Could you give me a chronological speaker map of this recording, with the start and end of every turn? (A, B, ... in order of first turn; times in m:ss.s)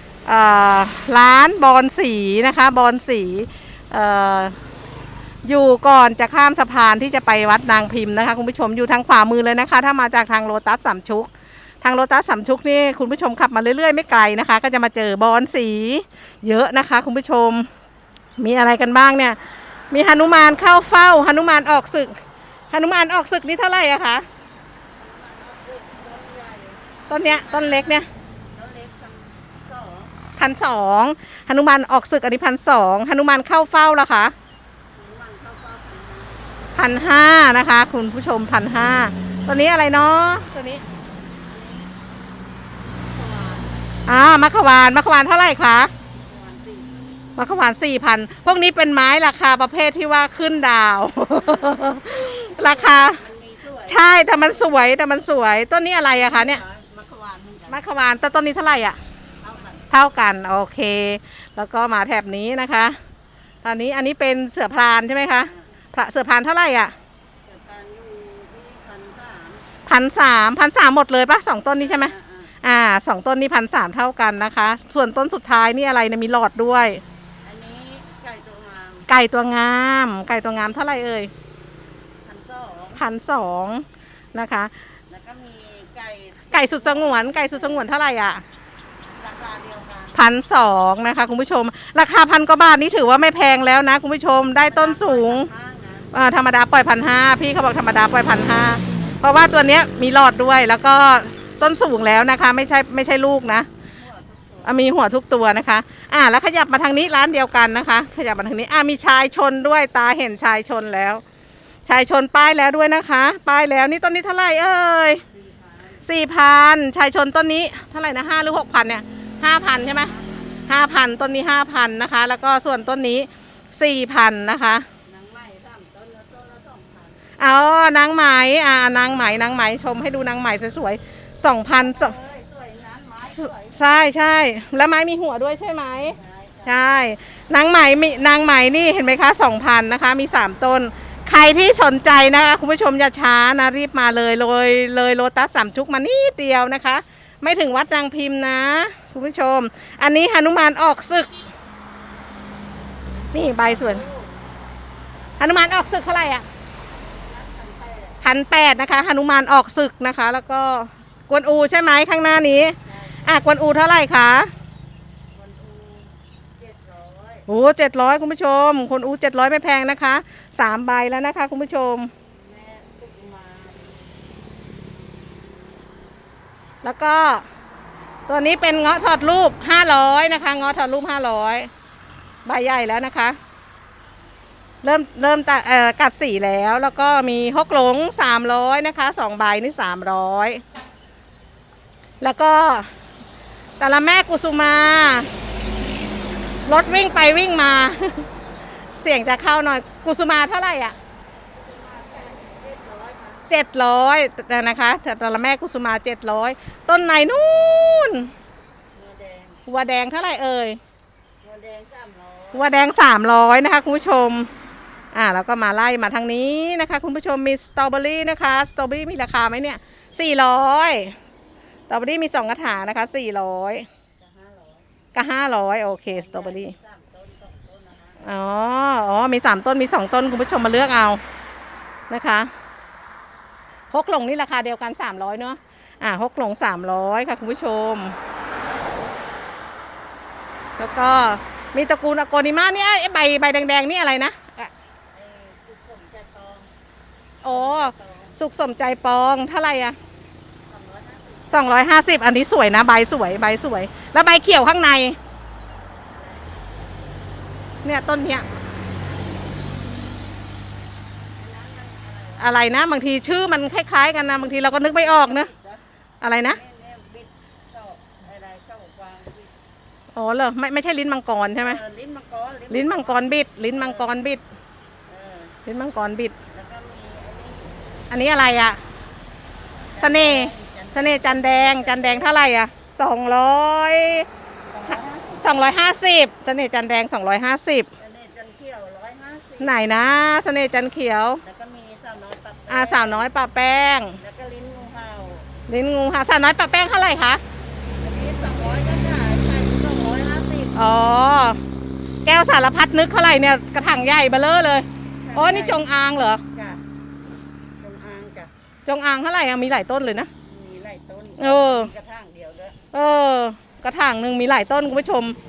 0:00.2-0:04.5 A
0:05.4-0:11.3 A
0:11.8-0:17.7 A
0:18.4-0:19.4 A
0:19.9-0:22.1 A
0:22.7-0:24.2 A
0:25.0-0:30.1 B
0:27.1-0:28.1 A
0:30.4-0:34.3 A
0:34.9-0:36.5 B
0:36.8-0:40.8 A
0:41.3-0:41.9 B
0:43.0-0:43.8 B
0:44.1-0:45.9 A
0:46.2-0:47.3 B
0:47.4-0:53.2 A
0:51.4-0:51.8 B
0:52.6-0:55.0 B
0:53.9-0:56.6 A
0:56.0-0:57.9 B
0:57.7-0:59.0 A
0:59.4-0:59.9 B
0:59.9-1:03.0 A
1:03.6-1:06.9 A
1:05.4-1:05.7 B
1:07.4-1:09.7 B
1:09.8-1:17.0 A
1:11.7-1:12.5 B
1:17.4-1:19.1 B
1:19.1-1:21.3 A
1:22.2-1:23.0 B
1:23.0-1:24.7 A
1:25.1-1:27.9 B
1:26.5-1:28.4 A
1:29.2-1:30.2 B
1:30.1-1:35.5 A
1:34.6-1:36.1 B
1:36.1-1:43.7 A
1:43.8-1:44.8 B
1:44.6-1:51.2 A
1:51.8-1:55.2 A
1:55.3-1:56.0 B
1:56.0-2:00.1 A
1:59.8-2:00.7 B
2:00.7-2:04.8 A
2:05.0-2:07.2 B
2:07.4-2:12.1 A
2:11.7-2:13.8 B
2:13.3-2:31.3 A
2:16.0-2:16.8 B
2:33.3-2:34.0 A
2:33.5-2:34.5 B
2:35.4-2:36.5 A
2:37.0-2:38.2 B
2:38.2-2:44.5 A
2:42.8-2:43.6 B
2:45.3-2:47.5 B
2:47.5-2:52.1 A
2:52.3-2:54.1 B
2:56.8-2:57.4 A
2:58.3-3:01.7 A
3:02.4-3:03.4 A
3:04.8-3:10.6 A
3:12.2-3:12.9 A
3:13.8-3:15.3 A
3:16.6-3:18.2 A
3:19.0-3:21.0 A
3:21.5-3:23.4 B
3:23.5-3:28.3 A
3:28.9-3:29.6 B
3:29.7-3:30.8 A
3:31.4-3:32.8 B
3:32.5-3:34.5 A
3:35.1-3:41.1 A
3:41.9-3:43.9 A
3:44.2-3:44.9 B
3:45.1-3:46.7 A
3:46.1-3:48.3 B
3:48.2-3:51.2 A
3:52.1-3:52.5 A
3:53.9-3:58.2 A
4:00.8-4:04.7 A
4:05.1-4:06.7 B
4:07.4-4:10.0 A
4:07.4-4:08.4 B
4:10.7-4:11.6 B
4:11.5-4:15.2 A
4:16.0-4:16.8 B
4:17.8-4:18.4 A
4:21.3-4:22.6 B
4:22.4-4:25.5 A
4:24.4-4:25.8 B
4:26.2-4:26.6 A
4:26.4-4:29.5 B
4:30.1-4:31.8 A
4:31.6-4:34.1 B
4:32.7-4:34.4 A
4:35.1-4:35.5 B
4:35.6-4:36.3 A
4:36.5-4:37.8 B
4:38.1-4:38.8 A
4:39.9-4:42.5 B
4:40.0-4:44.3 A
4:44.7-4:45.6 B
4:44.9-4:47.9 A
4:48.0-4:49.8 B
4:49.6-4:51.4 A
4:51.4-4:55.5 B
4:52.7-4:54.2 A
4:55.7-4:57.4 A
4:58.0-5:00.9 B
5:00.7-5:01.6 A
5:02.2-5:06.4 A
5:05.2-5:05.8 B
5:06.5-5:06.8 B
5:07.8-5:08.5 B
5:08.8-5:10.3 A
5:10.4-5:12.8 B
5:11.4-5:11.9 A
5:12.9-5:15.4 A